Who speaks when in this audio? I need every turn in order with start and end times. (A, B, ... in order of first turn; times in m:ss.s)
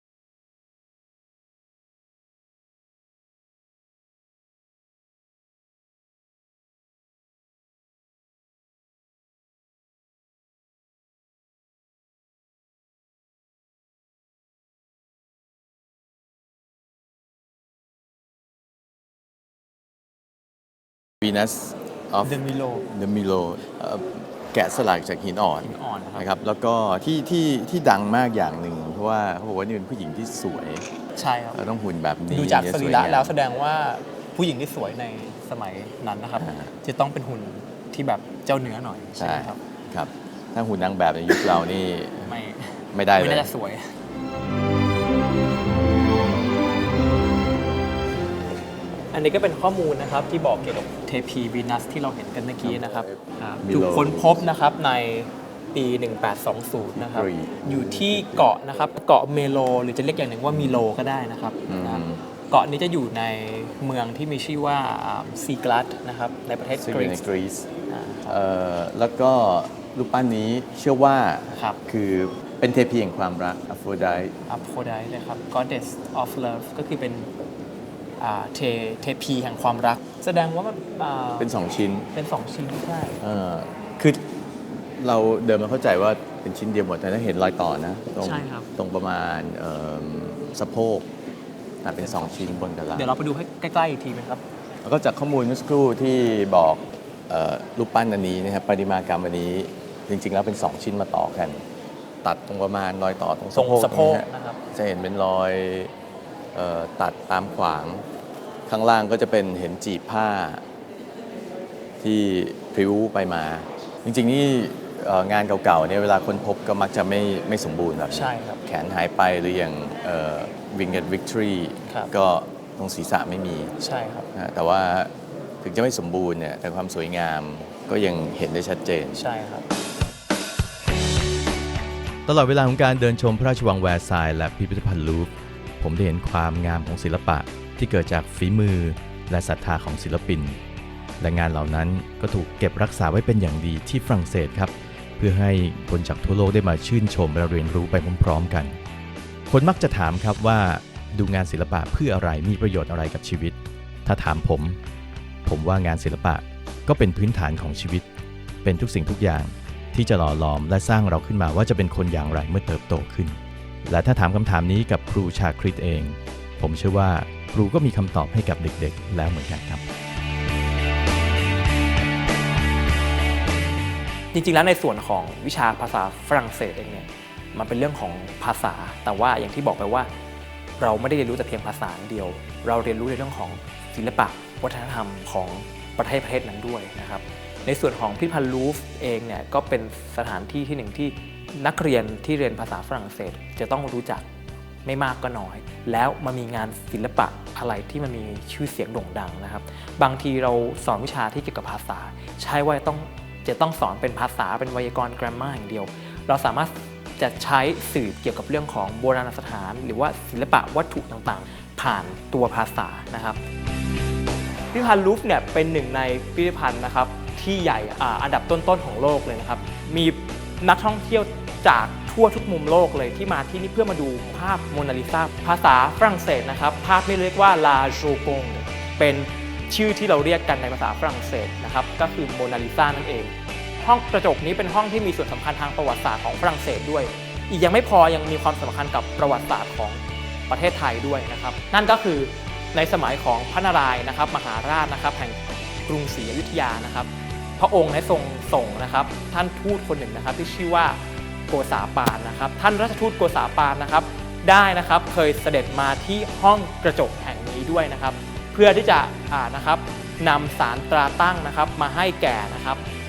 0:21.2-0:30.9 A
0:22.2-0:22.8 B
0:25.6-0:26.3 B
0:31.2-0:31.6 B
0:31.5-0:33.3 A
0:32.3-0:39.6 B
0:36.4-0:36.7 A
0:39.2-0:42.4 A
0:41.3-0:41.6 B
0:42.2-0:43.9 B
0:42.9-0:43.5 A
0:49.1-1:07.2 B
0:53.6-0:54.4 A
0:56.9-0:58.5 A
1:01.7-1:02.3 A
1:06.8-1:07.7 A
1:07.9-1:08.3 B
1:08.2-1:14.3 A
1:11.5-1:11.8 B
1:14.5-1:17.3 B
1:18.2-1:21.5 B
1:21.4-1:22.1 A
1:22.1-1:23.2 B
1:23.2-1:24.3 A
1:24.8-1:31.1 A
1:28.2-1:28.7 B
1:31.8-1:33.2 A
1:32.0-1:34.4 B
1:34.8-1:41.6 A
1:42.2-1:45.9 A
1:43.5-1:44.6 B
1:46.5-1:48.0 A
1:48.7-1:50.6 A
1:52.0-2:03.7 A
1:58.1-1:58.6 B
2:03.8-2:04.3 B
2:04.3-2:09.2 A
2:09.2-2:09.7 B
2:12.2-2:20.6 C
2:21.2-2:28.8 C
2:29.5-2:34.8 C
2:35.4-2:38.0 C
2:38.6-2:49.8 C
2:54.3-3:00.1 B
3:00.8-3:14.2 B
3:14.8-3:33.4 B
3:34.7-4:22.8 B